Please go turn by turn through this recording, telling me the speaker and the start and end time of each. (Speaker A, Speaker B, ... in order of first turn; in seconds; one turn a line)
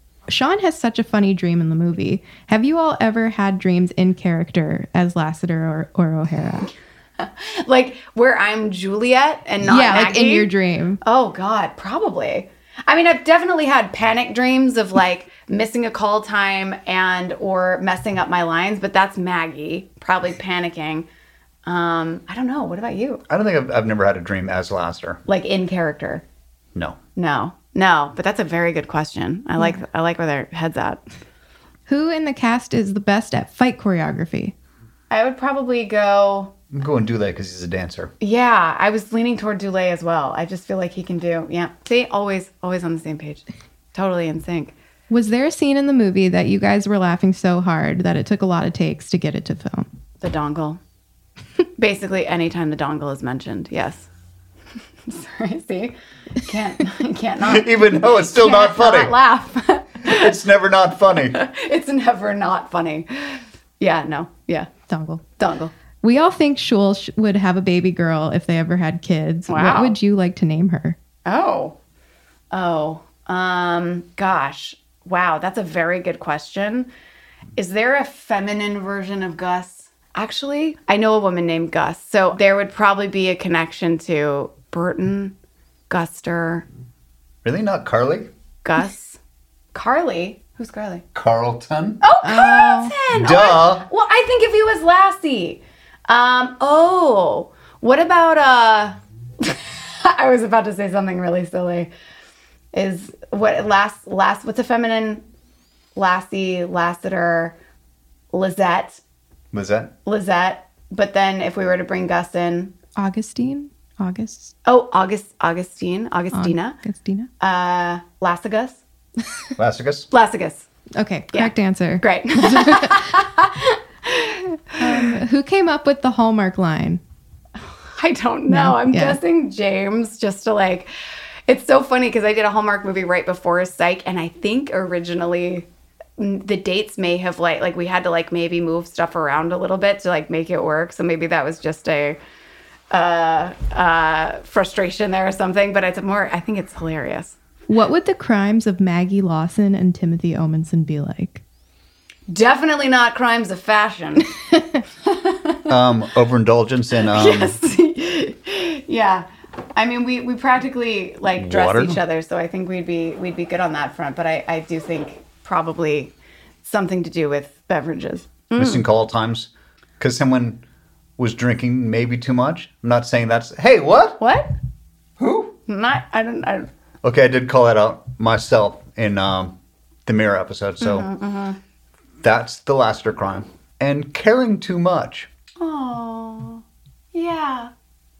Speaker A: 0.3-6.7
Speaker B: 7.2-10.5
Speaker A: 9.6-11.0
Speaker B: 11.0-21.1
Speaker B: 21.6-23.2
Speaker C: 23.3-25.2
Speaker B: 25.2-26.2
Speaker B: 27.1-31.0
Speaker A: 31.9-34.5
Speaker B: 35.1-36.5
Speaker C: 36.7-38.1
Speaker B: 38.2-44.7
Speaker A: 45.1-49.9
Speaker B: 50.2-50.8
Speaker B: 51.8-54.1
Speaker B: 55.1-60.3
Speaker C: 57.4-59.1
Speaker C: 60.0-61.4
Speaker B: 61.3-64.7
Speaker A: 64.9-65.2
Speaker B: 65.4-65.7
Speaker A: 66.0-71.0
Speaker B: 69.5-70.0
Speaker B: 71.2-71.8
Speaker B: 72.5-76.9
Speaker B: 77.6-85.3
Speaker B: 85.9-86.6
Speaker C: 87.4-88.3
Speaker B: 88.6-89.2
Speaker B: 89.7-91.0
Speaker C: 91.1-92.0
Speaker B: 92.0-101.9
Speaker A: 92.2-92.9
Speaker C: 93.1-93.8
Speaker B: 102.7-105.2
Speaker B: 106.0-107.5
Speaker B: 108.3-109.0
Speaker C: 109.5-109.9
Speaker B: 110.0-112.7
Speaker A: 113.0-114.5
Speaker B: 114.6-116.8
Speaker A: 116.3-117.3
Speaker B: 117.4-118.8
Speaker C: 119.6-120.1
Speaker B: 120.1-120.7
Speaker A: 120.9-123.1
Speaker B: 121.3-125.2
Speaker A: 124.8-127.0
Speaker B: 128.0-130.9
Speaker A: 128.5-129.2
Speaker B: 131.5-135.7
Speaker B: 136.2-142.2
Speaker B: 142.9-147.3
Speaker A: 147.7-151.4
Speaker B: 152.3-154.3
Speaker B: 155.0-155.7
Speaker C: 155.7-157.6
Speaker B: 157.1-168.8
Speaker C: 161.3-162.0
Speaker C: 168.6-170.6
Speaker C: 171.2-174.2
Speaker B: 174.2-174.5
Speaker C: 175.2-175.6
Speaker B: 175.7-176.7
Speaker C: 177.0-181.1
Speaker B: 180.8-181.6
Speaker C: 182.2-185.3
Speaker B: 185.6-187.7